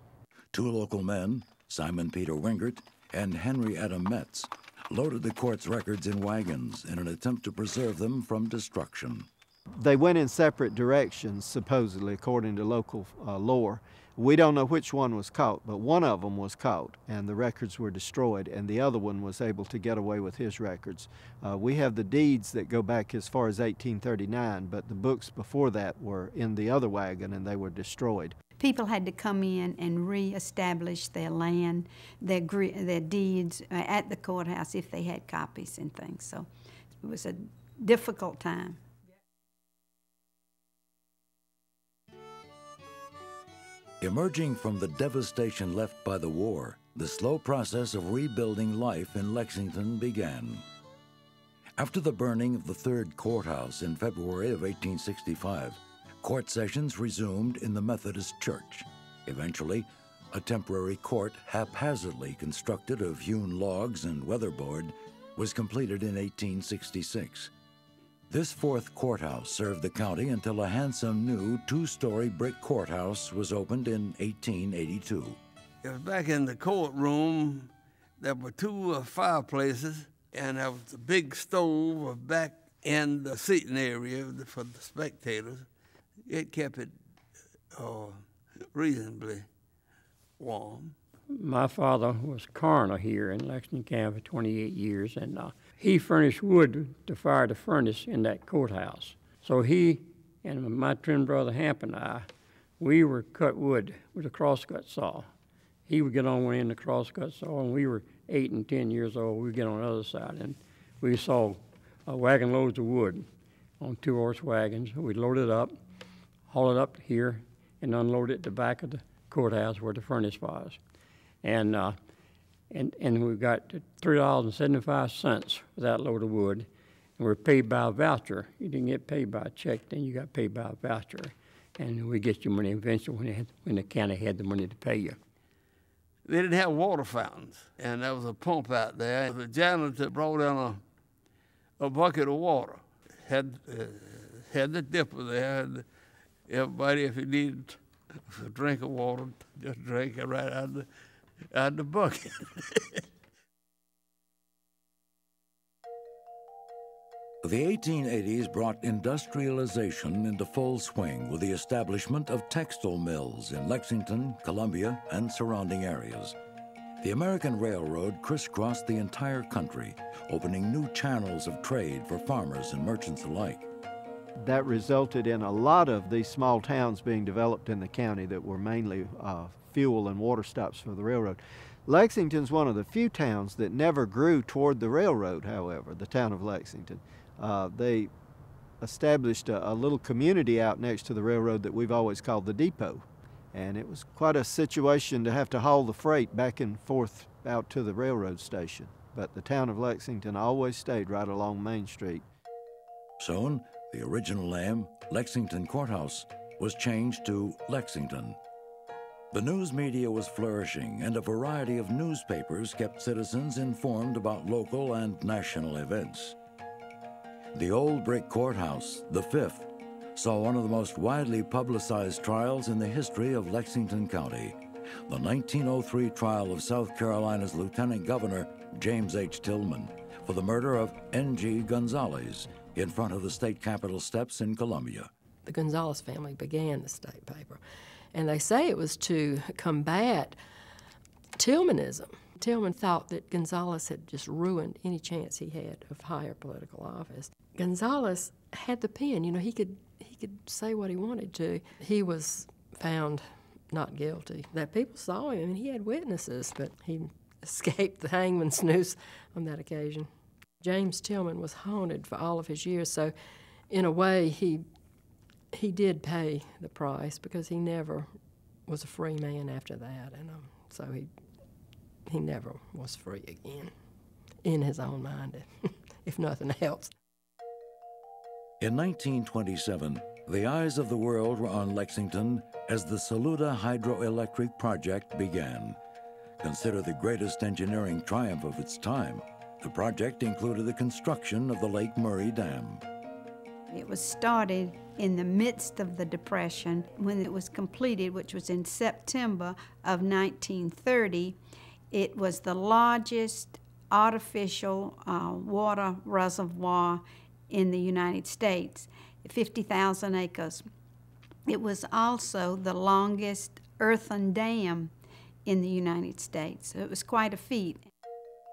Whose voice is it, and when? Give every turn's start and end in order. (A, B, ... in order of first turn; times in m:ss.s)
0:00.5-0:09.3 A
0:09.8-0:28.4 B
0:28.6-0:36.5 C
0:37.0-0:38.8 C
0:44.0-0:50.6 A
0:51.8-1:07.5 A
1:08.3-1:15.4 A
1:15.8-1:25.6 D
1:26.3-1:26.9 D
1:27.7-1:28.2 D
1:28.7-1:29.4 D
1:30.4-1:30.9 D
1:31.3-1:42.3 E
1:42.8-1:45.3 E
1:45.9-1:53.2 E
1:53.8-1:55.7 E
1:56.5-2:00.8 E
2:01.4-2:02.0 E
2:02.7-2:15.2 E
2:16.2-2:20.8 D
2:21.8-2:25.8 D
2:26.5-2:30.9 D
2:31.5-2:32.4 D
2:37.4-2:46.4 A
2:47.0-2:53.7 A
2:54.4-3:08.1 B
3:08.8-3:22.2 B
3:23.2-3:28.4 A
3:29.3-3:36.4 A
3:37.5-3:55.1 A
3:55.4-3:57.6 F
3:58.1-4:00.4 F
4:01.4-4:20.1 F
4:20.6-4:23.1 F
4:23.7-4:24.6 F
4:25.5-4:28.1 F
4:28.7-4:31.1 F
4:32.1-4:33.7 F
4:34.4-4:36.9 F
4:38.6-4:45.8 A
4:46.4-4:52.8 A
4:53.7-5:01.4 C
5:01.9-5:10.6 C
5:11.5-5:14.9 C
5:15.4-5:17.8 C